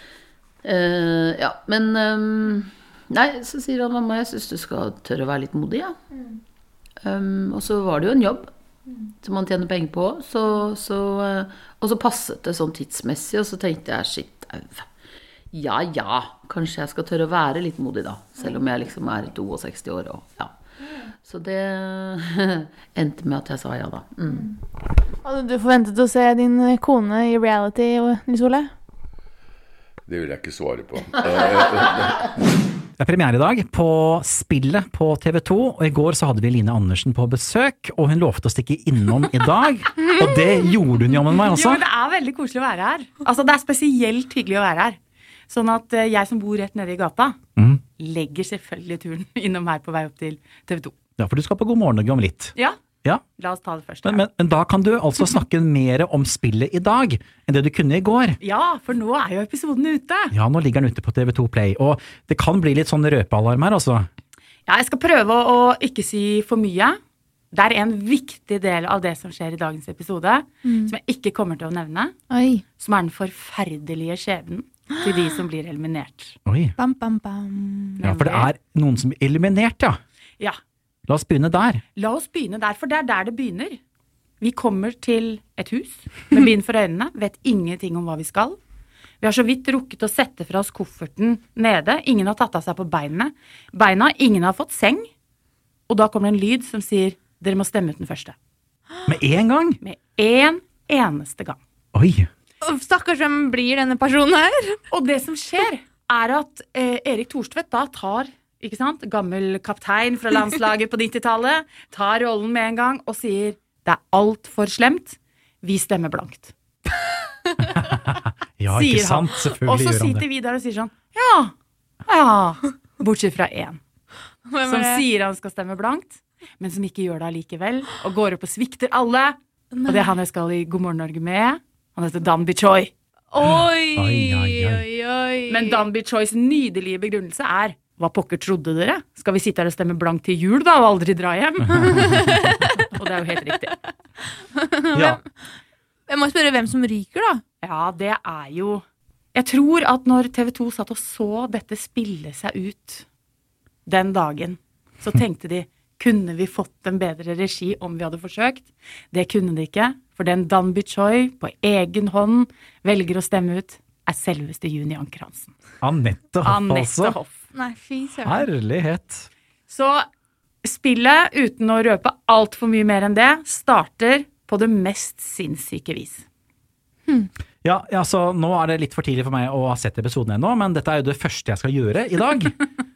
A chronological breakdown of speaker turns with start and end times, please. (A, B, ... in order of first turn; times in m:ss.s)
0:00.6-0:06.0 A
0:07.0-0:08.5 A
0:09.2-0:14.9 A
0:15.5-0:20.5 A
0:21.2-0:24.5 A
0:25.2-0:28.7 B
0:30.1-0:32.2 C
0:33.0-0:41.8 D
0:41.5-0:45.0 E
0:45.5-0:47.4 E
0:48.0-0:51.0 E
0:51.2-0:53.2 D
0:53.4-0:54.2 E
0:54.0-0:58.4 D
0:58.4-1:00.3 E
1:00.3-1:04.1 D
1:04.7-1:07.0 E
1:07.5-1:12.1 E
1:10.7-1:10.9 B
1:12.3-1:12.6 B
1:12.8-1:16.4 E
1:15.0-1:15.3 B
1:16.5-1:16.8 D
1:16.8-1:18.0 B
1:18.0-1:18.5 E
1:18.0-1:20.0 D
1:21.1-1:21.8 D
1:22.0-1:23.8 E
1:24.4-1:28.6 E
1:29.2-1:35.1 E
1:35.9-1:38.3 E
1:39.1-1:39.8 D
1:39.8-1:41.6 E
1:42.0-1:42.3 D
1:42.6-1:44.8 B
1:44.9-1:56.5 E
1:57.7-2:00.2 D
1:58.7-2:01.5 E
2:02.1-2:03.8 E
2:04.5-2:05.0 B
2:04.6-2:12.9 E
2:09.7-2:10.2 B
2:13.3-2:15.8 B
2:14.0-2:14.9 D
2:15.5-2:22.2 E
2:21.8-2:22.4 D
2:21.9-2:22.7 B
2:23.0-2:23.8 E
2:24.5-2:25.3 B
2:24.9-2:25.2 D
2:26.1-2:27.4 B
2:27.6-2:28.8 E
2:29.4-2:33.0 E
2:33.9-2:45.5 E
2:45.8-2:47.2 D
2:46.4-2:47.4 E
2:47.5-2:48.5 B
2:48.2-2:49.3 D
2:49.7-2:50.0 E
2:50.6-2:56.2 E
2:57.6-3:02.6 D